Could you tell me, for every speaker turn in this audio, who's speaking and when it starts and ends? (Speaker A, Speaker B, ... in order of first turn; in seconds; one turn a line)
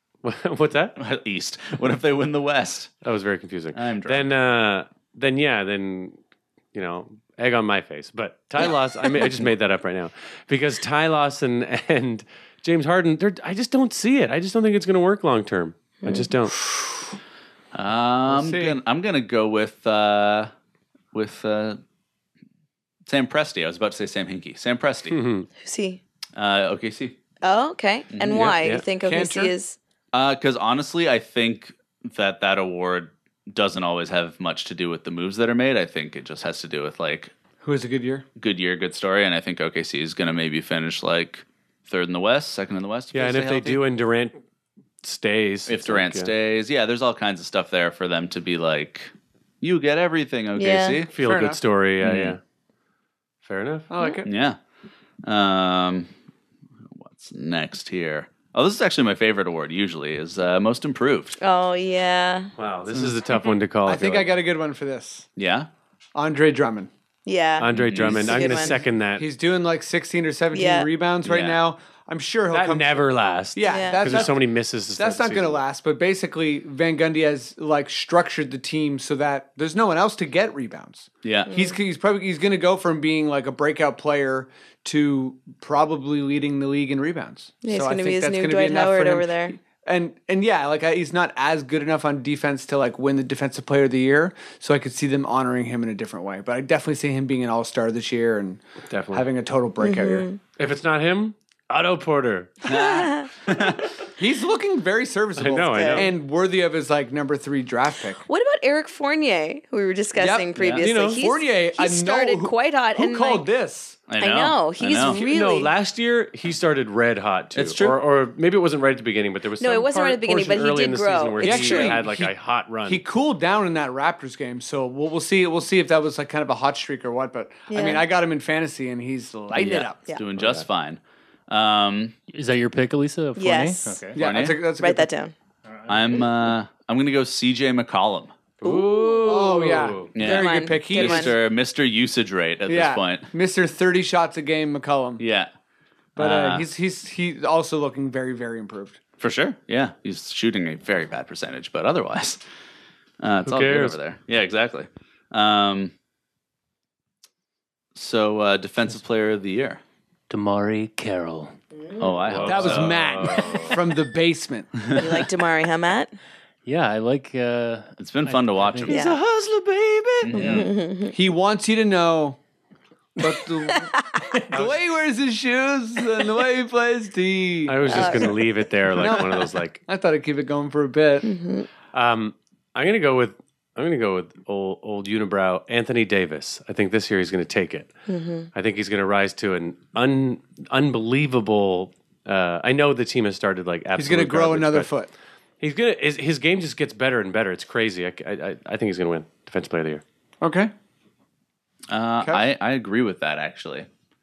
Speaker A: 0.2-1.0
Speaker B: 1.0-2.9
Speaker A: 3.0-6.2
Speaker B: 3.7-4.3
Speaker A: 6.7-16.6
Speaker C: 16.0-16.3
Speaker B: 17.7-20.5
Speaker D: 18.3-18.8
Speaker B: 21.1-21.8
Speaker B: 23.1-25.2
Speaker A: 25.1-25.5
Speaker C: 25.6-26.0
Speaker B: 26.4-27.2
Speaker C: 27.4-29.8
Speaker B: 28.1-28.5
Speaker A: 28.3-28.8
Speaker D: 29.0-29.5
Speaker B: 30.1-37.3
Speaker D: 37.6-38.2
Speaker B: 38.4-43.8
Speaker A: 43.1-44.4
Speaker A: 45.0-46.3
Speaker B: 45.7-51.1
Speaker C: 50.5-51.1
Speaker A: 51.1-52.4
Speaker D: 51.2-51.6
Speaker B: 52.0-52.4
Speaker A: 53.4-53.9
Speaker D: 53.9-54.2
Speaker B: 54.2-54.6
Speaker B: 55.2-56.1
Speaker B: 56.9-61.4
Speaker C: 61.4-62.5
Speaker A: 62.6-64.3
Speaker D: 63.8-65.3
Speaker B: 65.4-65.7
Speaker D: 66.1-66.9
Speaker C: 67.2-68.8
Speaker A: 67.6-69.2
Speaker B: 67.7-68.5
Speaker D: 69.2-74.4
Speaker C: 70.5-70.9
Speaker B: 71.2-71.6
Speaker A: 72.5-75.6
Speaker C: 73.6-74.3
Speaker D: 75.0-100.3
Speaker B: 81.2-81.5
Speaker C: 81.5-81.8
Speaker C: 87.6-89.6
Speaker A: 98.9-99.3
Speaker C: 99.8-100.4
Speaker A: 100.6-102.6
Speaker C: 102.7-103.3
Speaker B: 102.7-103.8
Speaker D: 104.2-108.2
Speaker A: 105.4-106.1
Speaker C: 105.7-106.1
Speaker C: 108.2-113.5
Speaker D: 110.1-114.0
Speaker A: 110.7-111.2
Speaker B: 114.1-115.2
Speaker C: 114.2-115.7
Speaker A: 115.1-123.0
Speaker C: 119.6-122.0
Speaker D: 121.4-122.3
Speaker D: 122.8-130.0
Speaker C: 127.7-128.1
Speaker B: 129.5-132.1
Speaker A: 130.4-130.7
Speaker E: 132.3-134.2
Speaker C: 133.3-134.1
Speaker D: 134.1-135.1
Speaker B: 134.1-134.6
Speaker C: 134.7-135.3
Speaker E: 135.7-136.1
Speaker B: 135.9-138.3
Speaker A: 138.6-140.1
Speaker C: 138.6-141.3
Speaker D: 139.2-141.3
Speaker B: 140.1-143.3
Speaker D: 142.7-145.2
Speaker B: 145.2-145.5
Speaker D: 146.2-149.0
Speaker B: 146.2-146.7
Speaker B: 149.2-152.4
Speaker B: 153.2-155.9
Speaker A: 153.4-154.0
Speaker B: 157.9-159.8
Speaker E: 160.3-161.5
Speaker C: 161.8-162.1
Speaker B: 162.0-163.2
Speaker A: 162.3-163.8
Speaker D: 162.4-164.8
Speaker B: 164.9-165.2
Speaker C: 164.9-166.1
Speaker E: 166.6-169.0
Speaker B: 168.0-170.7
Speaker C: 168.8-169.2
Speaker C: 170.3-171.2
Speaker D: 171.1-172.4
Speaker D: 173.2-173.9
Speaker C: 173.7-174.2
Speaker D: 174.5-178.4
Speaker A: 174.5-174.8
Speaker A: 177.7-179.8
Speaker C: 177.8-178.6
Speaker D: 178.9-181.3
Speaker C: 181.2-181.7
Speaker A: 181.9-187.9
Speaker C: 188.1-188.5
Speaker A: 188.5-194.9
Speaker D: 193.9-195.1
Speaker A: 195.6-200.0
Speaker D: 200.4-200.7
Speaker B: 201.9-203.9